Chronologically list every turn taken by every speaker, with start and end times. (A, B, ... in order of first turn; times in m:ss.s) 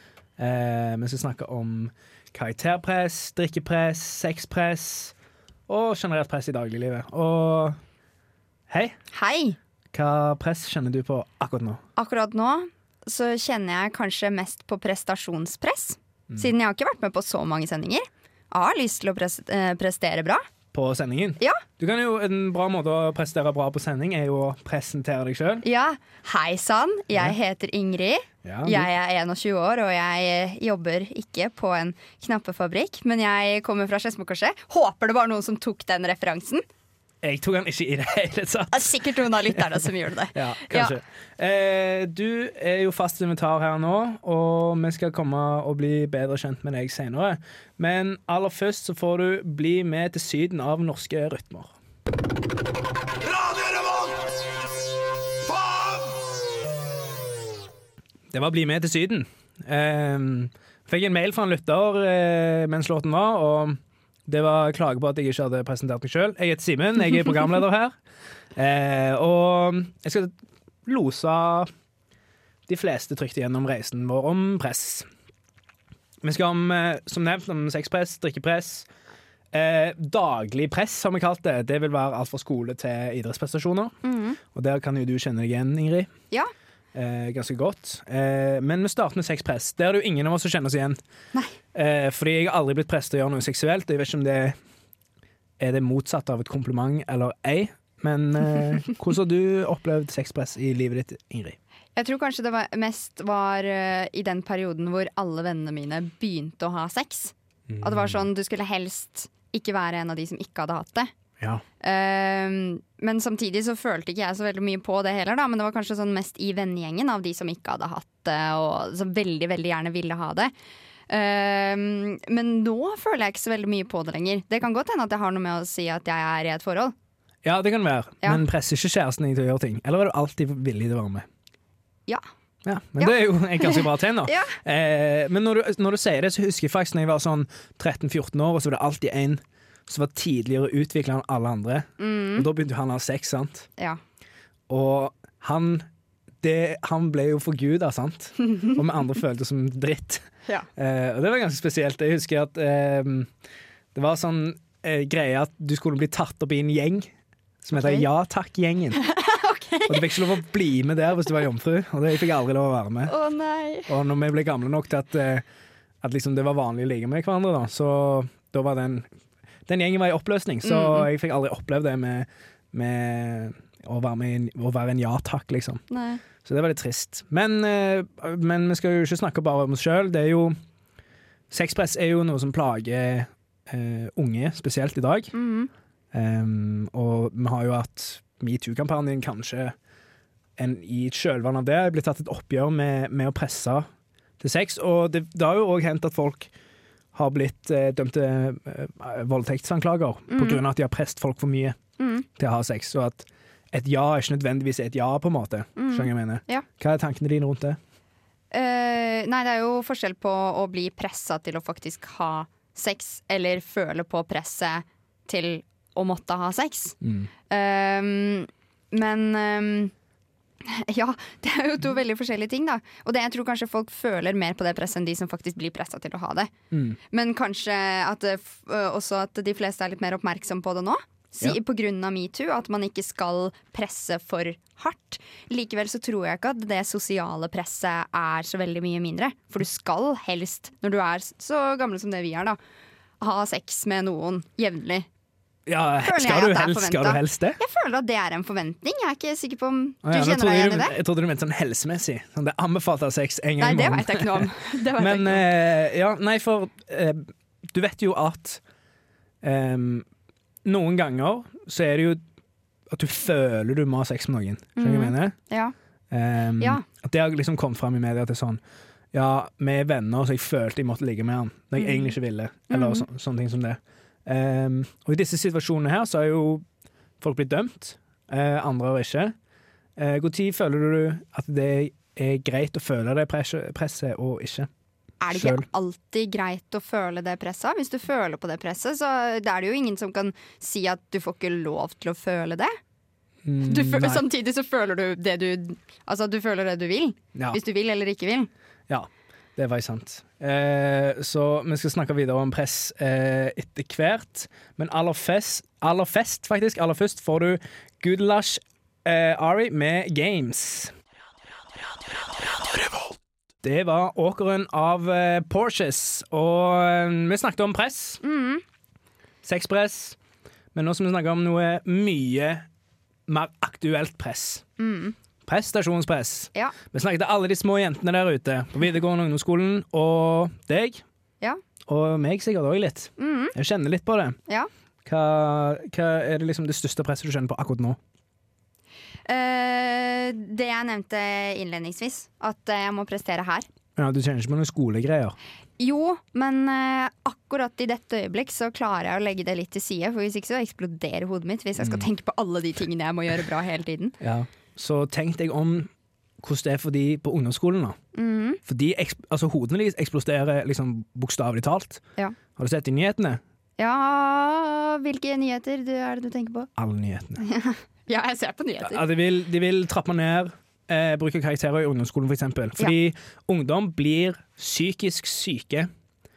0:00.4-0:05.1 A
0:05.7-0:07.8 A
0:08.7-0:09.0 A
0:09.1-0:09.6 B
0:09.9-0:11.8 A
0:12.0-0:20.4 B
0:20.7-0:25.6 A
0:25.6-0:36.6 B
0:28.4-0:28.9 A
0:37.2-0:39.6 A
0:38.7-0:41.0 B
0:40.3-0:51.7 A
0:58.3-1:07.9 A
1:08.5-1:10.3 A
1:10.8-1:11.7 A
1:12.7-1:15.1 A
1:16.2-1:18.9 A
1:19.5-1:23.9 A
1:24.0-1:24.4 B
1:24.5-1:26.1 A
1:26.9-1:31.0 A
1:31.7-1:34.6 A
1:35.6-1:41.6 A
1:42.0-1:51.1 B
1:47.7-1:48.2 A
1:51.8-2:00.5 B
2:01.1-2:06.9 B
2:07.4-2:11.2 A
2:12.6-2:23.7 A
2:13.0-2:14.6 B
2:22.0-2:22.5 B
2:24.7-2:25.8 A
2:26.4-2:33.3 A
2:33.9-2:37.1 A
2:37.6-2:39.0 A
2:39.0-2:40.3 B
2:39.9-2:43.1 A
2:43.1-2:43.9 B
2:43.9-2:45.4 A
2:46.0-2:49.1 A
2:49.6-2:55.8 A
2:50.6-2:51.1 B
2:55.9-2:56.2 B
2:56.4-3:00.5 A
3:01.5-3:05.3 A
3:05.3-3:05.7 B
3:06.1-3:09.7 A
3:10.6-3:13.9 A
3:14.4-3:16.5 A
3:17.1-3:21.8 A
3:20.3-3:20.6 B
3:22.0-3:22.2 B
3:22.4-3:27.8 A
3:25.8-3:26.6 B
3:28.5-3:37.0 B
3:37.0-3:37.3 A
3:37.5-3:39.9 B
3:40.6-3:46.5 B
3:46.7-3:47.0 A
3:47.1-4:02.6 B
4:03.2-4:05.1 B
4:05.7-4:07.6 A
4:06.0-4:10.9 B
4:10.0-4:18.6 A
4:13.6-4:15.4 B
4:19.4-4:20.0 A
4:20.6-4:22.2 A
4:22.9-4:25.3 A
4:24.8-4:25.7 B
4:26.1-4:28.6 A
4:26.6-4:26.8 B
4:29.1-4:36.6 A
4:31.8-4:32.1 B
4:32.7-4:33.0 B
4:37.2-4:39.3 A
4:40.0-4:44.7 A
4:45.2-4:52.7 B
4:45.3-4:45.6 A
4:53.4-4:54.3 A
4:53.6-4:58.5 B
4:57.3-4:57.6 A
4:58.9-5:10.9 A
5:13.6-5:18.2 A
5:18.2-5:18.6 B
5:19.4-5:20.2 A
5:20.7-5:22.6 A
5:23.3-5:24.6 A
5:24.8-5:25.2 B
5:25.4-5:31.0 A
5:31.9-5:34.4 A
5:33.2-5:33.5 B
5:35.0-5:38.0 A
5:39.3-5:43.6 B
5:44.0-5:45.4 A
5:45.8-5:54.2 B
5:51.8-5:52.1 A
5:54.2-5:58.0 A
5:58.1-5:58.6 B
5:58.6-6:02.0 A
6:02.6-6:03.4 A
6:03.8-6:06.7 B
6:06.8-6:07.4 A
6:07.4-6:09.0 B
6:08.8-6:15.9 A